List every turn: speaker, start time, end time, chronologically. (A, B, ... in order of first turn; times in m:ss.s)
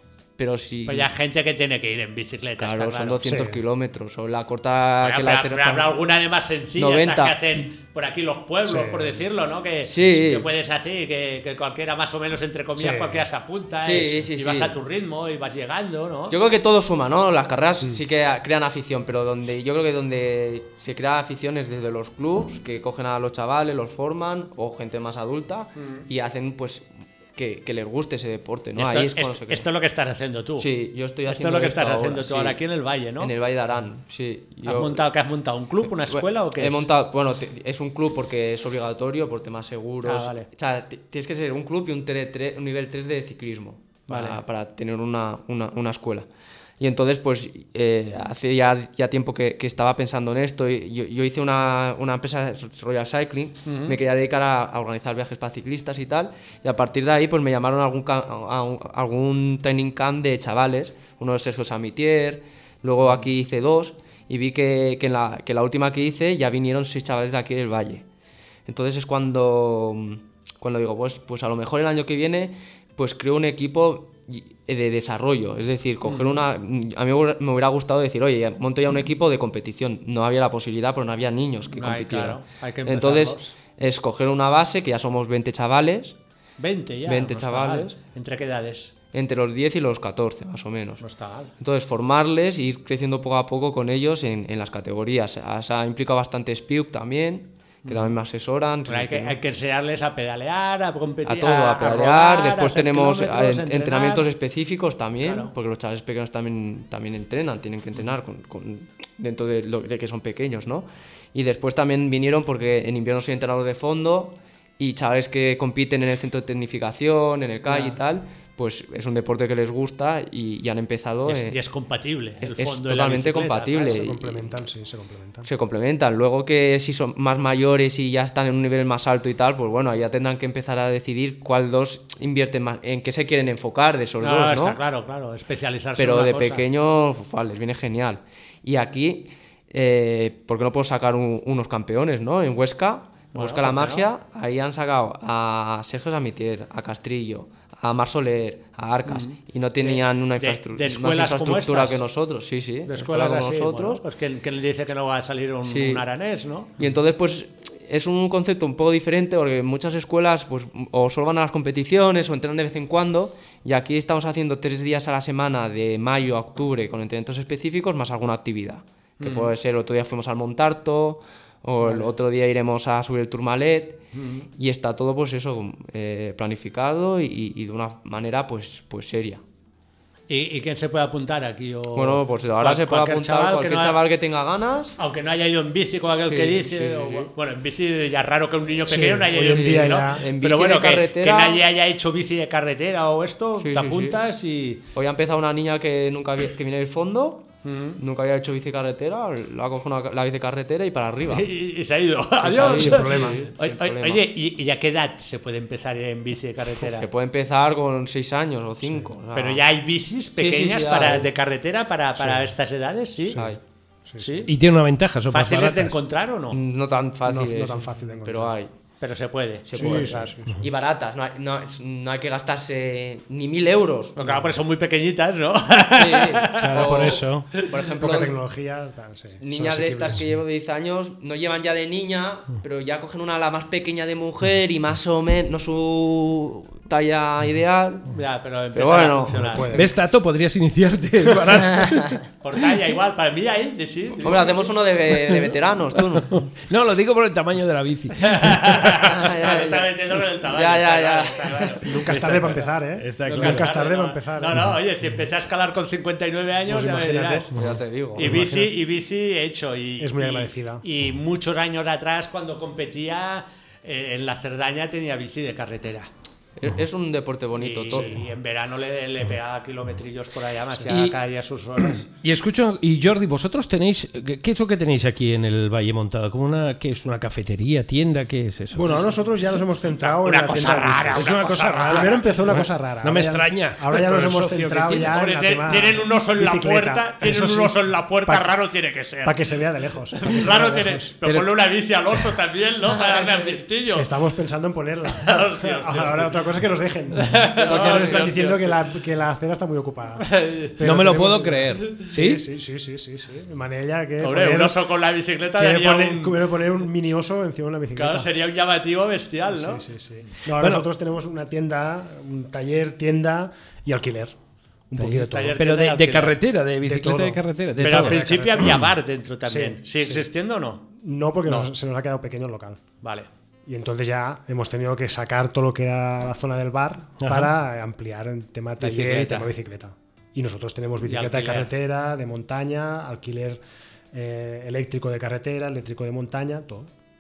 0:00.4-0:01.1 A
0:00.8-0:03.2 B
0:02.6-0:06.0 A
0:03.2-0:03.6 C
0:05.0-0:16.4 B
0:06.8-0:07.4 A
0:08.6-0:09.2 C
0:09.8-0:10.5 A
0:12.7-0:13.3 C
0:13.8-0:14.7 A
0:13.8-0:14.2 C
0:16.3-0:29.6 A
0:25.8-0:26.0 B
0:28.8-0:30.7 B
0:30.6-0:32.6 A
0:31.3-0:33.3 B
0:33.2-0:35.0 A
0:34.6-0:36.9 B
0:35.8-0:46.3 A
0:40.0-0:40.5 B
0:44.1-0:44.4 B
0:46.8-1:08.0 A
0:53.6-0:54.0 B
1:08.7-1:26.2 A
1:16.0-1:16.4 B
1:21.7-1:23.5 B
1:26.6-1:28.9 B
1:27.0-1:28.0 A
1:29.1-1:31.0 A
1:31.0-1:31.5 B
1:31.6-1:39.4 A
1:37.8-1:38.1 B
1:38.9-1:44.2 B
1:41.2-2:01.6 A
1:45.2-1:45.5 B
2:01.2-2:04.0 B
2:02.4-2:04.5 A
2:03.8-2:05.5 C
2:05.4-2:14.8 A
2:14.2-2:16.6 B
2:16.0-2:34.0 A
2:23.3-2:24.1 B
2:29.1-2:32.0 B
2:32.9-2:36.7 B
2:35.6-2:36.0 A
2:36.8-2:54.0 A
2:49.2-2:49.5 B
2:51.8-2:52.1 B
2:54.1-2:54.5 B
2:54.6-2:59.4 A
3:00.3-3:04.0 B
3:01.9-3:05.0 A
3:05.0-3:14.8 B
3:06.2-3:07.3 A
3:08.8-3:10.2 C
3:09.4-3:11.6 A
3:13.6-3:14.2 A
3:14.9-3:21.5 A
3:17.6-3:18.0 B
3:21.3-3:27.1 B
3:22.4-3:24.2 A
3:22.4-3:23.5 C
3:26.9-3:29.6 A
3:28.8-3:29.1 C
3:29.3-3:33.4 B
3:30.4-3:31.3 A
3:32.2-3:32.5 C
3:33.3-3:34.5 C
3:33.3-3:33.6 A
3:34.2-3:34.5 B
3:34.5-3:36.0 D
3:35.3-3:36.6 B
3:36.5-3:38.7 A
3:37.2-3:38.5 C
3:39.0-3:40.3 B
3:39.6-3:44.2 A
3:39.7-3:40.6 C
3:44.2-3:47.8 B
3:44.2-3:44.5 C
3:45.9-3:48.3 A
3:46.6-3:47.5 D
3:48.0-3:50.3 C
3:49.4-3:58.1 A
3:58.1-3:59.7 B
3:58.7-3:59.6 A
3:59.3-3:59.9 C
3:59.7-4:02.2 D
4:01.7-4:02.1 A
4:02.4-4:04.7 B
4:04.2-4:06.3 A
4:05.2-4:05.6 D
4:06.3-4:09.0 D
4:08.2-4:12.7 B
4:09.0-4:11.8 A
4:11.8-4:14.7 C
4:13.0-4:13.7 D
4:13.2-4:17.5 B
4:16.7-4:17.5 C
4:17.6-4:18.3 A
4:18.2-4:26.1 B
4:18.2-4:18.8 C
4:20.0-4:20.8 C
4:26.6-4:28.1 A
4:27.6-4:32.0 B
4:30.9-4:31.2 D
4:31.8-4:38.9 D
4:38.7-4:48.6 C
4:40.0-4:42.3 B
4:41.1-4:45.2 D
4:45.0-4:49.4 B
4:49.2-4:51.1 C
4:50.2-4:54.1 B
4:51.2-4:51.6 D
4:53.9-5:05.0 C
4:55.2-4:56.4 B
4:57.2-4:58.8 B
4:57.7-4:58.2 A
5:00.2-5:00.8 B
5:00.8-5:02.4 D
5:04.2-5:06.4 B
5:05.5-5:08.3 C
5:08.0-5:09.8 B
5:09.4-5:14.4 C
5:10.5-5:10.8 D
5:14.9-5:15.6 C
5:15.0-5:18.8 D
5:15.2-5:16.4 B
5:16.8-5:18.9 C
5:17.8-5:20.8 B
5:19.4-5:20.3 C
5:20.9-5:22.8 C
5:23.0-5:23.3 B
5:23.6-5:33.6 C
5:27.2-5:27.5 D
5:28.8-5:29.5 B
5:31.0-5:31.7 B
5:34.1-5:36.9 C